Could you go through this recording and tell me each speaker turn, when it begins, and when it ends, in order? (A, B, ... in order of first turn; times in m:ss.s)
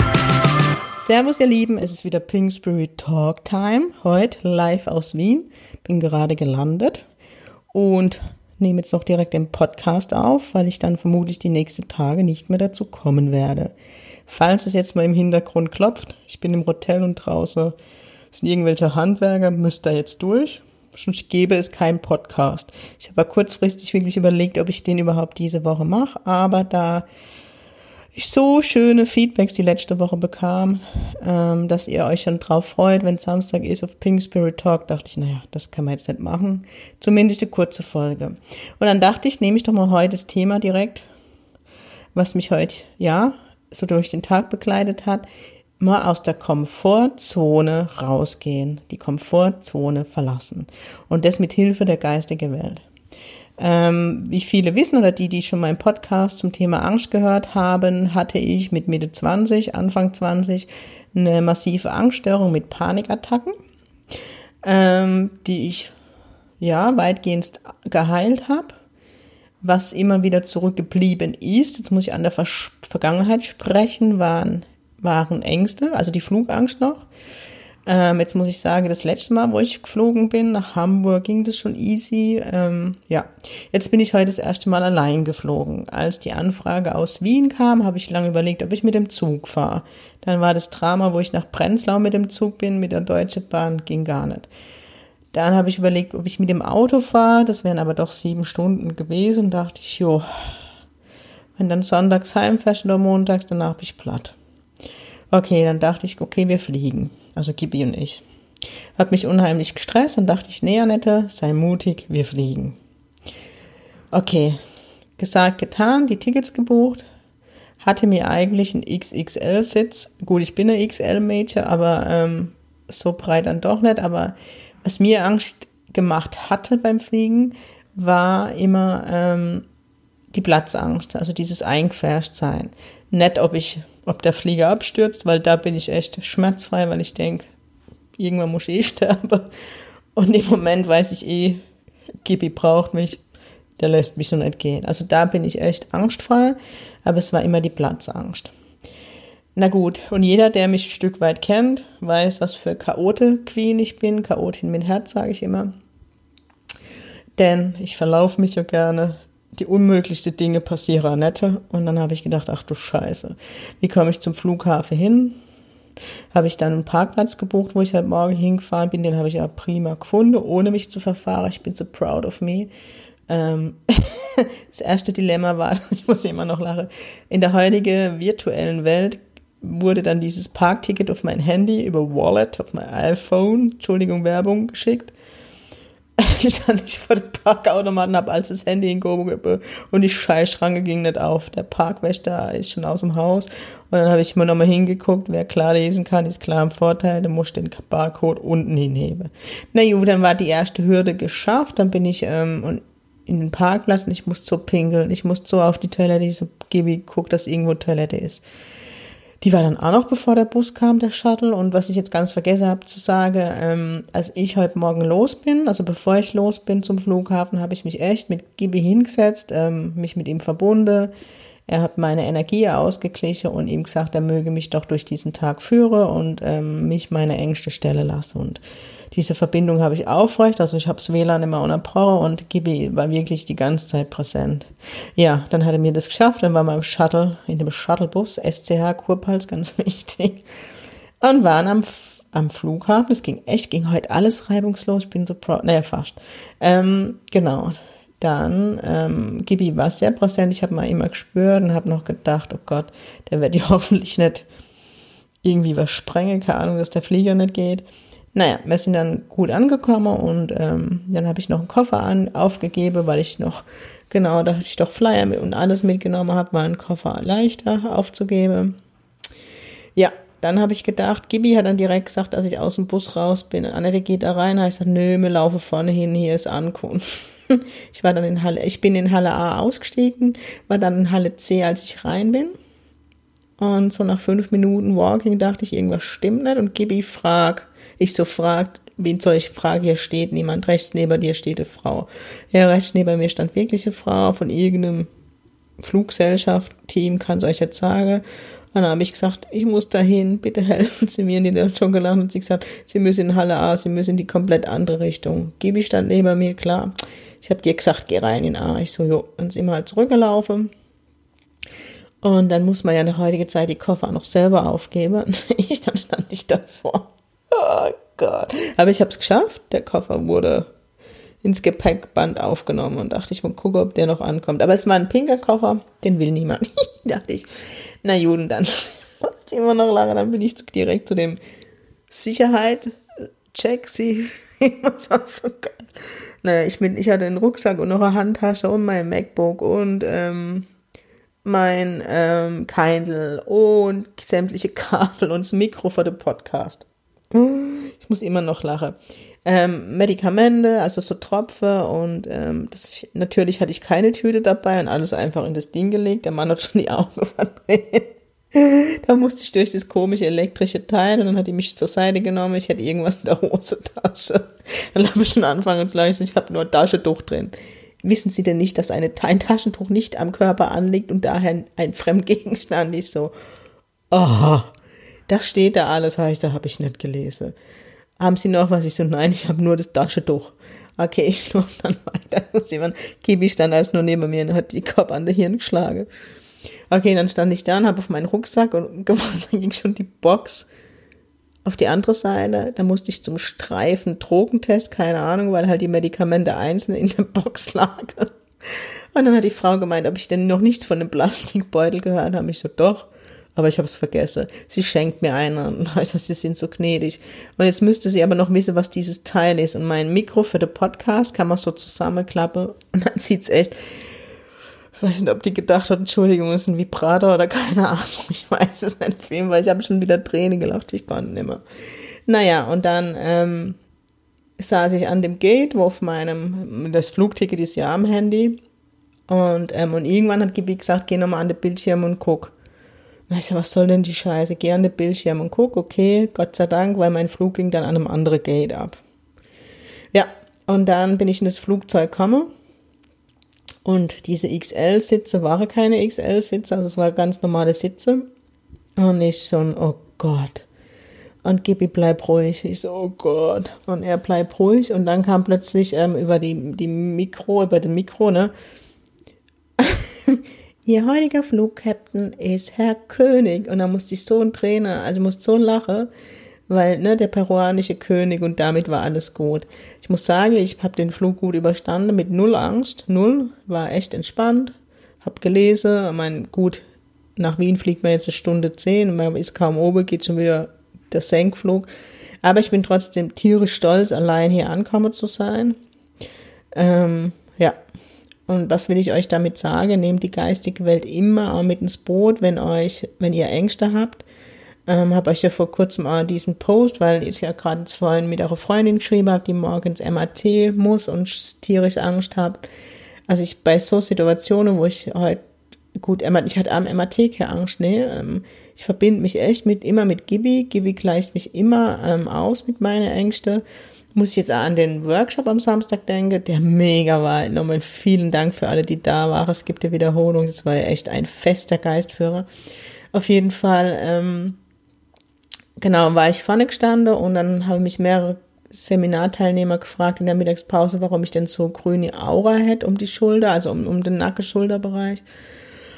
0:01.0-0:07.1 A
0:07.7-0:13.7 A
0:14.3-0:17.8 A
0:18.3-0:27.1 A
0:28.1-0:41.0 A
0:42.1-0:45.3 A
0:45.8-0:52.8 A
0:53.6-1:03.6 A
1:04.6-1:05.9 A
1:06.6-1:08.8 A
1:09.6-1:17.0 A
1:17.8-1:34.5 A
1:35.3-1:40.5 A
1:41.6-1:44.4 A
1:45.3-1:48.2 A
1:49.0-1:52.8 A
1:54.1-1:54.6 A
1:55.2-1:57.0 A
1:57.8-2:09.6 A
2:10.3-2:17.5 A
2:18.2-2:19.5 A
2:20.2-2:21.6 A
2:22.2-2:23.2 A
2:23.8-2:28.5 A
2:29.6-2:35.7 A
2:37.4-2:45.4 A
2:46.3-2:52.7 A
2:53.3-3:05.1 A
3:06.2-3:28.4 A
3:29.4-3:41.1 A
3:41.7-3:48.6 A
3:49.1-4:00.4 A
4:01.2-4:14.5 A
4:15.4-4:28.8 A
4:30.0-4:42.5 A
4:43.6-4:55.1 A
4:55.8-5:10.7 A
5:12.2-5:20.7 A
5:21.4-5:27.5 A
5:28.0-5:31.4 A
5:32.1-5:33.0 A
5:33.5-5:40.7 A
5:41.4-6:13.3 A
6:14.1-6:14.7 A
6:15.3-6:17.5 A
6:18.2-6:26.1 A
6:26.9-6:30.7 A
6:31.6-6:53.8 A
6:55.0-7:01.6 A
7:02.3-7:03.8 A
7:04.6-7:08.6 A
7:09.3-7:12.5 A
7:13.3-7:19.0 A
7:20.1-7:22.5 A
7:23.8-7:28.3 A
7:29.0-7:30.6 A
7:31.4-7:38.5 A
7:39.8-7:46.1 A
7:46.7-7:56.8 A
7:57.4-8:01.9 A
8:02.4-8:05.8 A
8:06.7-8:07.8 A
8:08.5-8:14.2 A
8:14.9-8:22.6 A
8:23.3-8:25.4 A
8:26.0-8:33.6 A
8:34.1-8:42.5 A
8:43.1-8:44.6 A
8:45.8-8:55.2 A